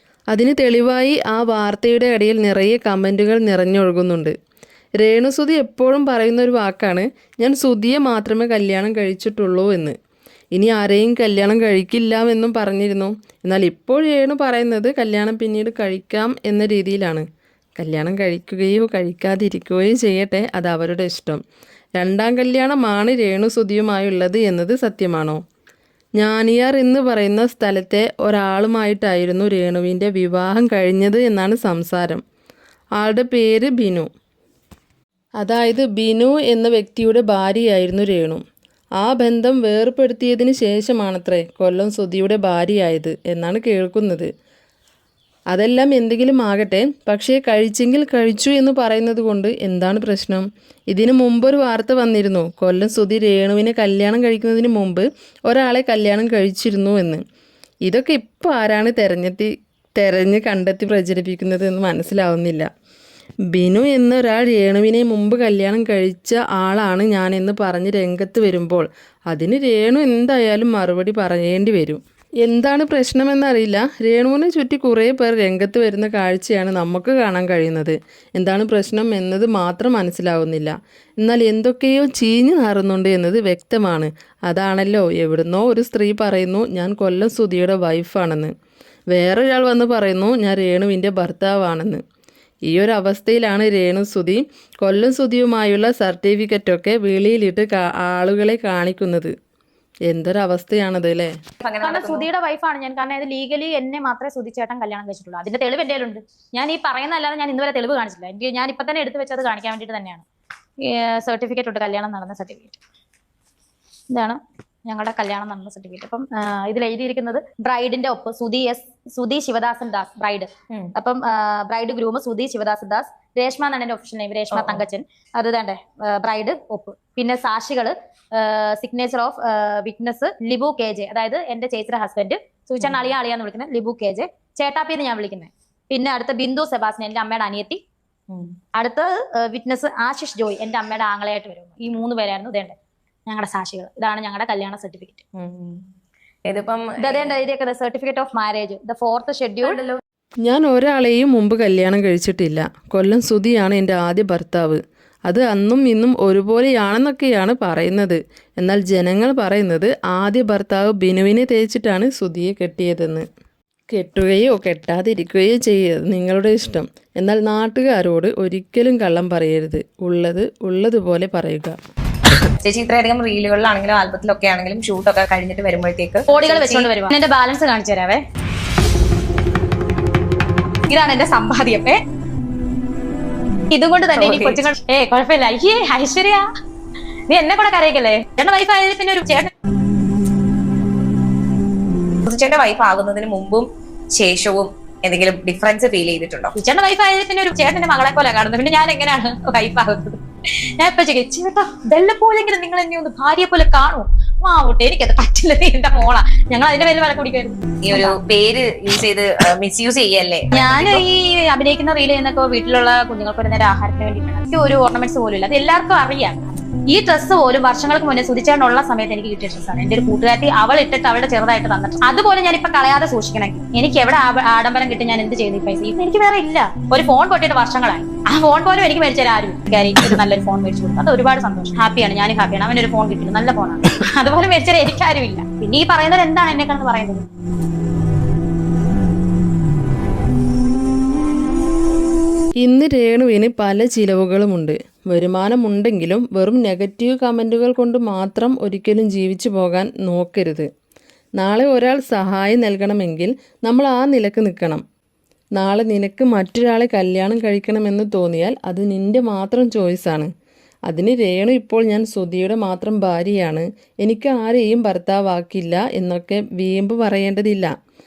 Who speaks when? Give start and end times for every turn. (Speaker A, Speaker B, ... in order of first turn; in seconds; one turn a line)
Speaker A: 0.3-4.3
Speaker A: 5.0-9.9
Speaker A: 10.5-17.3
Speaker A: 17.8-21.4
Speaker A: 22.0-25.4
Speaker A: 26.2-32.2
Speaker A: 33.0-34.1
Speaker A: 35.4-38.4
Speaker A: 39.0-44.3
Speaker A: 45.5-57.2
Speaker A: 57.9-62.7
Speaker A: 63.5-88.5
Speaker A: 89.1-92.0
Speaker A: 92.7-99.3
Speaker A: 100.1-101.3
Speaker B: 101.6-102.3
Speaker C: 101.8-110.2
Speaker C: 110.8-112.8
Speaker C: 114.1-137.8
Speaker B: 124.5-124.8
Speaker C: 138.7-142.8
Speaker C: 143.3-145.2
Speaker B: 145.3-145.8
Speaker B: 146.4-147.3
Speaker C: 147.0-149.8
Speaker B: 149.7-150.0
Speaker A: 150.4-163.2
Speaker A: 163.9-171.8
Speaker B: 172.6-176.9
Speaker C: 176.3-178.2
Speaker C: 180.9-182.0
Speaker C: 183.7-186.4
Speaker B: 184.1-184.6
Speaker C: 187.3-189.5
Speaker B: 192.2-196.5
Speaker C: 196.5-200.2
Speaker C: 200.8-208.2
Speaker B: 207.8-211.0
Speaker C: 210.5-237.2
Speaker A: 242.6-250.7
Speaker A: 251.4-254.8
Speaker A: 255.6-260.3
Speaker A: 260.9-267.7